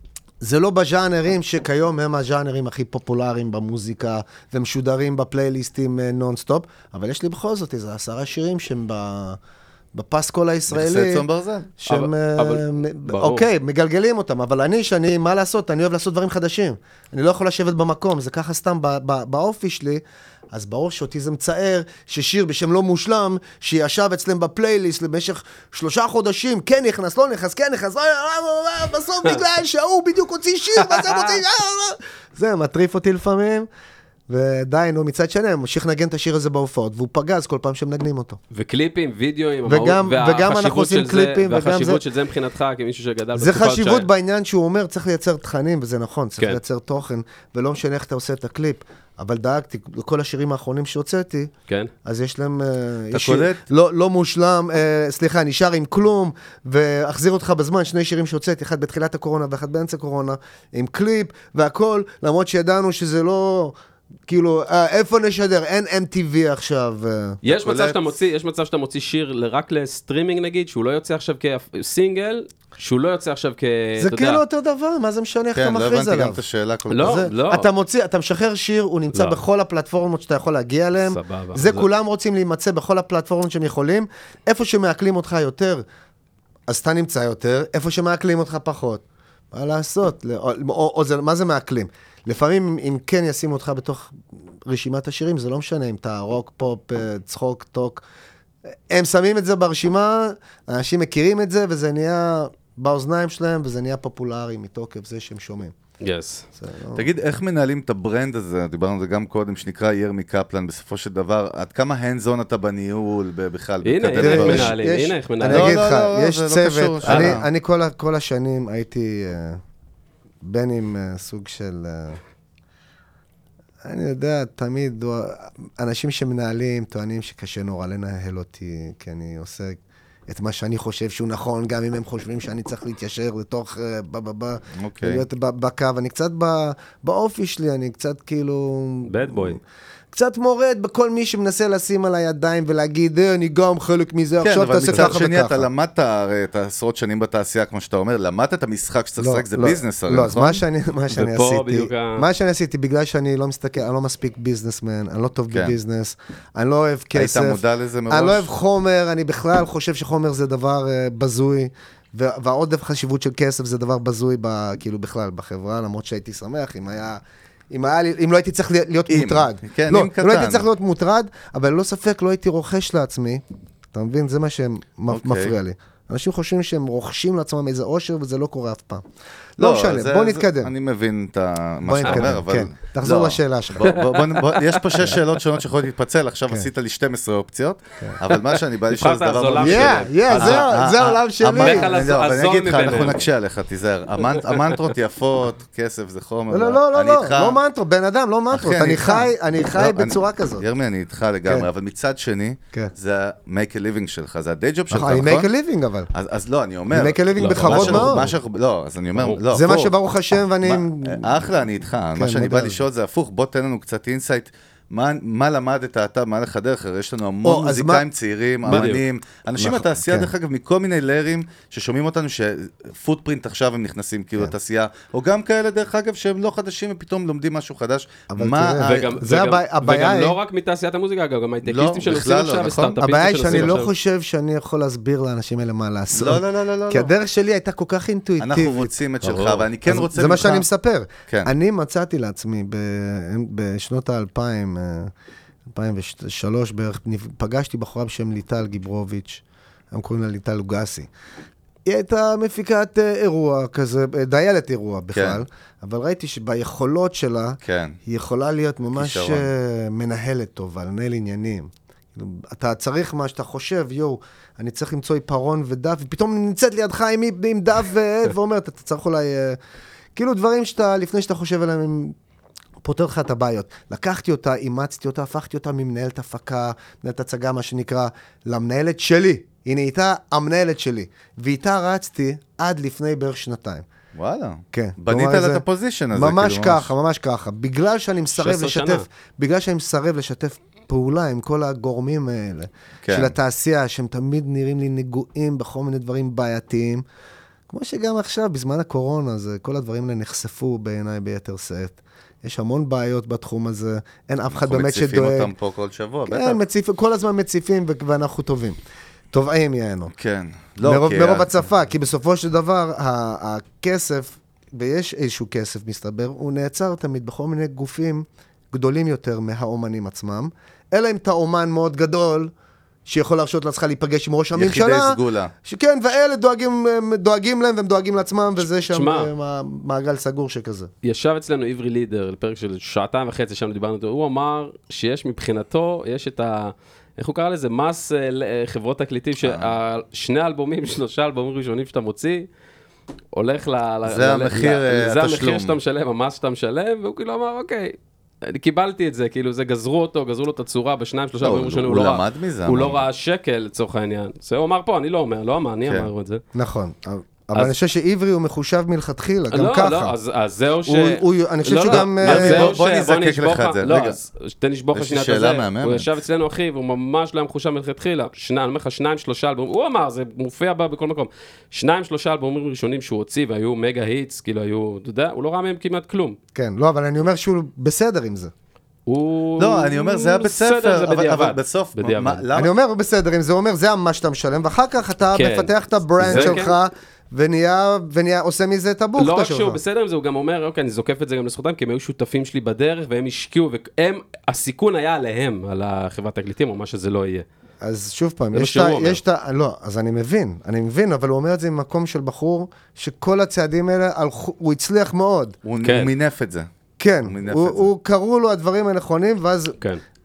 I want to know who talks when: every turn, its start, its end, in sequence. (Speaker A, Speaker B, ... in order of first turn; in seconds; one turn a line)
Speaker A: 0.4-9.4
Speaker A: 9.9-11.3
Speaker B: 10.7-11.7
Speaker A: 11.8-33.7
Speaker C: 11.9-13.5
Speaker C: 30.8-31.4
Speaker A: 34.3-38.4
Speaker C: 38.5-44.1
Speaker A: 39.7-42.0
Speaker A: 43.4-51.5
Speaker A: 52.0-63.8
Speaker B: 53.1-53.6
Speaker A: 64.3-67.4
Speaker C: 67.4-74.4
Speaker B: 67.5-68.0
Speaker A: 74.0-76.4
Speaker B: 75.5-77.2
Speaker C: 76.9-77.7
Speaker A: 77.0-85.8
Speaker C: 79.1-79.4
Speaker C: 81.0-81.9
Speaker A: 86.7-98.0
Speaker A: 98.9-105.8
Speaker C: 106.0-106.5
Speaker A: 106.6-107.1
Speaker B: 107.0-114.8
Speaker C: 113.8-115.8
Speaker A: 114.2-119.6
Speaker B: 115.5-117.5
Speaker C: 117.1-117.4
Speaker A: 120.4-122.2
Speaker A: 123.8-129.8
Speaker A: 130.3-139.6
Speaker B: 134.8-135.2
Speaker C: 139.1-139.6
Speaker A: 140.1-145.7
Speaker B: 144.4-150.6
Speaker A: 149.2-179.1
Speaker C: 151.1-152.2
Speaker B: 155.5-155.8
Speaker B: 157.2-158.5
Speaker B: 169.1-170.7
Speaker B: 175.1-175.6
Speaker A: 179.6-180.7
Speaker B: 179.6-197.6
Speaker A: 181.8-183.9
Speaker C: 182.1-182.3
Speaker C: 183.9-184.8
Speaker C: 188.3-190.7
Speaker A: 189.6-191.9
Speaker C: 191.5-193.2
Speaker C: 194.4-194.8
Speaker A: 196.5-200.7
Speaker B: 198.5-205.5
Speaker A: 204.9-206.1
Speaker B: 206.1-210.0
Speaker A: 206.9-208.3
Speaker C: 207.4-208.2
Speaker C: 209.2-209.4
Speaker A: 209.5-211.5
Speaker B: 210.6-229.1
Speaker A: 212.2-212.8
Speaker A: 217.4-218.1
Speaker A: 218.7-219.0
Speaker C: 218.7-219.0
Speaker A: 219.6-220.3
Speaker A: 228.3-230.4
Speaker C: 228.8-233.9
Speaker B: 231.6-233.8
Speaker A: 233.0-238.9
Speaker B: 236.1-237.1
Speaker B: 238.4-240.7
Speaker C: 239.2-239.7
Speaker A: 239.9-245.1
Speaker A: 245.7-251.1
Speaker A: 251.8-269.6
Speaker B: 255.1-255.4
Speaker B: 257.6-258.0
Speaker B: 258.9-259.5
Speaker A: 270.1-272.2
Speaker A: 272.8-283.9
Speaker B: 284.2-286.9
Speaker A: 284.7-297.0
Speaker C: 288.4-289.1
Speaker B: 293.0-293.3
Speaker A: 297.7-305.5
Speaker B: 304.5-306.6
Speaker A: 306.3-308.8
Speaker A: 309.3-310.1
Speaker B: 310.2-311.5
Speaker A: 310.8-322.5
Speaker A: 323.1-330.9
Speaker B: 324.6-325.5
Speaker C: 328.9-329.3
Speaker C: 331.0-342.5
Speaker B: 339.4-339.7
Speaker C: 343.3-356.4
Speaker B: 344.1-345.8
Speaker B: 351.4-353.0
Speaker A: 356.5-360.1
Speaker C: 359.5-376.4
Speaker A: 360.9-362.8
Speaker B: 361.9-364.2
Speaker B: 364.9-366.1
Speaker A: 376.6-378.5
Speaker C: 379.1-382.4
Speaker B: 379.6-382.7
Speaker A: 382.5-389.8
Speaker C: 385.3-386.8
Speaker B: 386.2-386.6
Speaker C: 389.2-397.5
Speaker A: 397.8-405.6
Speaker C: 398.5-399.2
Speaker B: 405.6-406.7
Speaker C: 405.8-406.1
Speaker A: 407.0-409.8
Speaker B: 407.2-407.9